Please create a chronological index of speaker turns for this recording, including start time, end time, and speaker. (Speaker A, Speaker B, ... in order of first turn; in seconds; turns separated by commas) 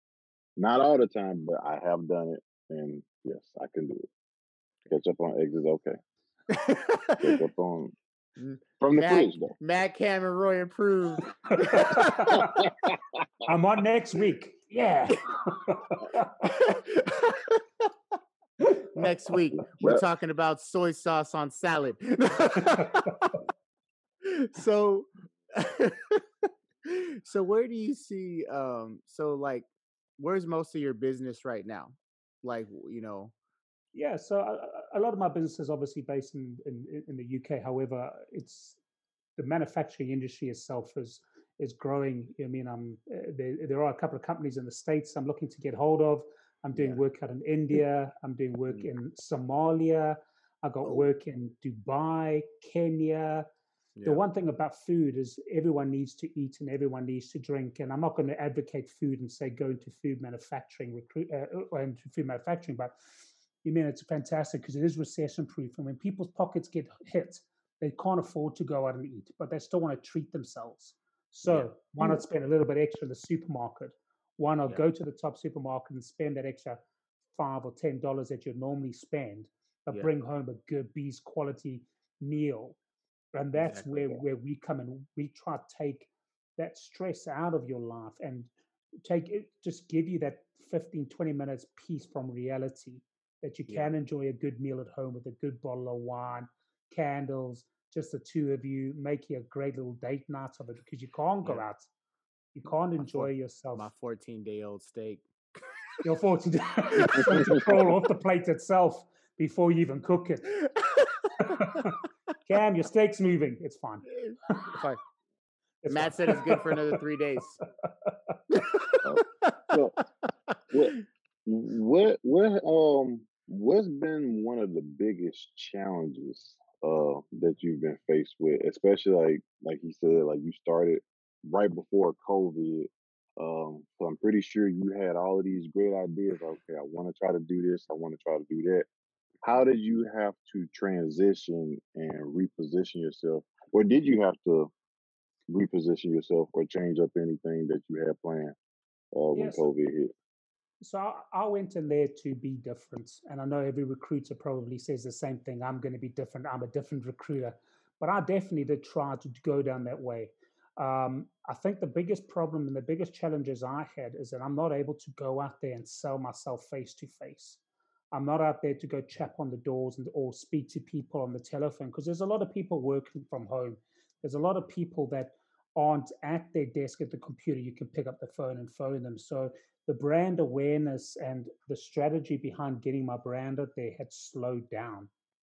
Speaker A: 0.6-4.1, Speaker A: 4.9-6.0, Speaker B: 6.5-7.4, Speaker A: 7.2-8.0, Speaker B: 8.4-12.3, Speaker A: 8.8-9.5, Speaker C: 11.5-12.7, Speaker A: 12.3-13.0, Speaker C: 13.5-16.3, Speaker B: 16.4-17.9, Speaker B: 18.9-23.4, Speaker A: 19.6-20.0, Speaker C: 22.6-23.1, Speaker B: 24.2-29.7, Speaker B: 30.2-33.3, Speaker C: 33.9-38.8, Speaker C: 39.4-53.5, Speaker B: 46.8-47.0, Speaker C: 54.0-63.0, Speaker C: 63.6-76.8, Speaker C: 77.3-82.8, Speaker C: 83.3-88.5, Speaker B: 83.6-84.2, Speaker C: 89.0-101.9, Speaker C: 102.5-103.9, Speaker B: 103.0-105.3, Speaker C: 106.0-110.6, Speaker B: 107.0-107.6, Speaker B: 110.7-111.6, Speaker C: 111.4-114.8, Speaker B: 114.1-115.0, Speaker C: 115.8-117.0, Speaker B: 115.9-117.6, Speaker C: 118.0-118.4, Speaker B: 118.5-119.8, Speaker A: 119.0-120.0, Speaker A: 120.7-138.9, Speaker A: 139.4-144.7, Speaker A: 145.5-148.6, Speaker A: 149.1-150.1, Speaker C: 149.3-149.7, Speaker C: 150.8-167.6, Speaker C: 168.1-185.1